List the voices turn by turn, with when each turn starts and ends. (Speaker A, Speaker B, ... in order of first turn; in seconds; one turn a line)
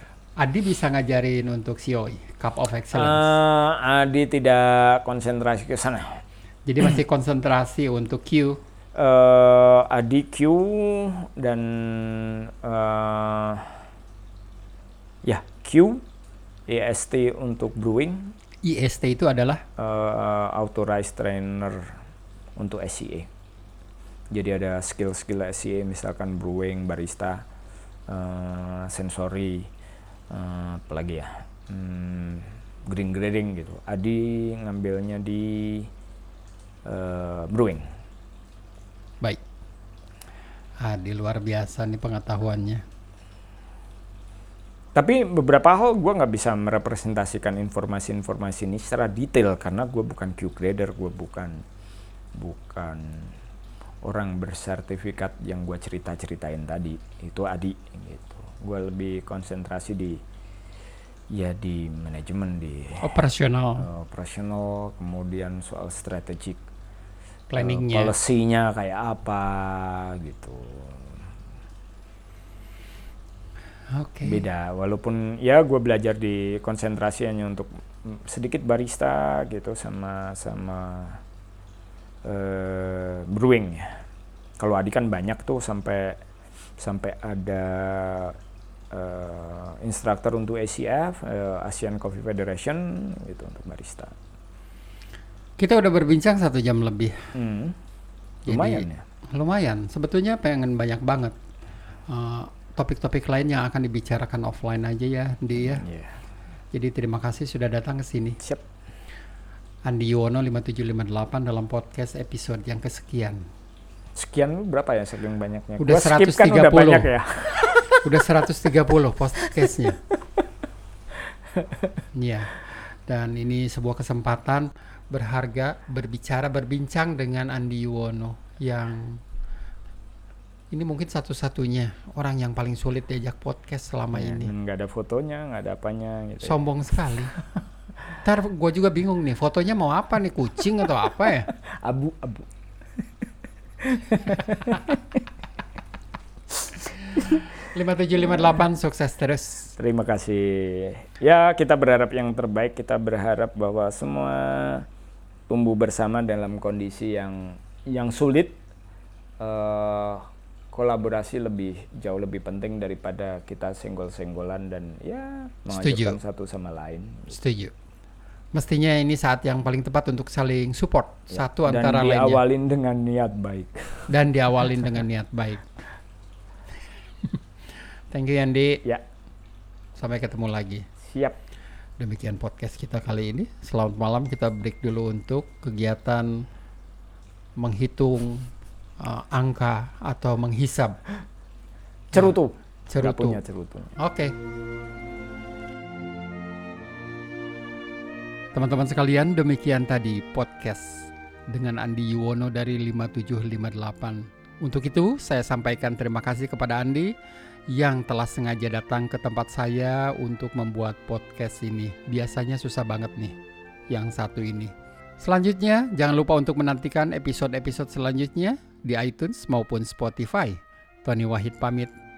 Speaker A: 0.4-3.3
Speaker B: 2.9-6.2
Speaker A: 6.7-8.6
Speaker B: 8.9-13.8
Speaker B: 15.2-16.0
Speaker B: 16.7-18.3
Speaker A: 18.6-19.6
Speaker B: 19.8-21.9
Speaker B: 22.6-23.3
Speaker B: 24.3-27.4
Speaker B: 28.1-29.7
Speaker B: 30.3-35.9
Speaker B: 36.8-37.9
Speaker A: 40.8-42.8
Speaker B: 44.9-51.6
Speaker B: 52.3-53.3
Speaker B: 54.0-60.2
Speaker B: 61.3-63.1
Speaker A: 63.0-63.9
Speaker B: 63.8-66.6
Speaker A: 67.5-68.1
Speaker B: 67.6-71.2
Speaker A: 73.9-74.4
Speaker B: 74.2-81.2
Speaker B: 82.2-84.0
Speaker B: 84.6-86.2
Speaker B: 86.8-88.3
Speaker B: 88.9-94.2
Speaker A: 95.6-97.2
Speaker B: 97.3-97.8
Speaker A: 98.5-101.3
Speaker B: 98.5-99.0
Speaker A: 102.1-105.8
Speaker B: 105.6-106.2
Speaker A: 106.7-108.4
Speaker A: 109.8-113.5
Speaker B: 114.1-118.4
Speaker A: 115.8-117.1
Speaker A: 118.0-120.0
Speaker B: 119.5-120.4
Speaker B: 121.5-121.9
Speaker A: 122.1-129.2
Speaker A: 130.7-134.5
Speaker B: 134.1-136.6
Speaker A: 136.4-137.3
Speaker A: 138.2-141.5
Speaker B: 141.6-142.5
Speaker B: 143.8-145.2
Speaker A: 147.1-149.7
Speaker B: 149.8-154.8
Speaker B: 155.5-158.6
Speaker B: 159.4-167.3
Speaker A: 165.7-166.2
Speaker A: 167.3-167.7
Speaker A: 168.5-172.4
Speaker B: 171.3-174.1
Speaker A: 174.1-175.6
Speaker A: 178.1-178.8
Speaker A: 179.9-180.8
Speaker B: 181.0-181.4
Speaker A: 182.0-186.4
Speaker A: 187.6-191.0
Speaker B: 192.1-193.9
Speaker A: 192.9-193.4
Speaker A: 194.0-194.3
Speaker A: 198.5-207.1
Speaker A: 207.7-213.3
Speaker A: 213.9-221.9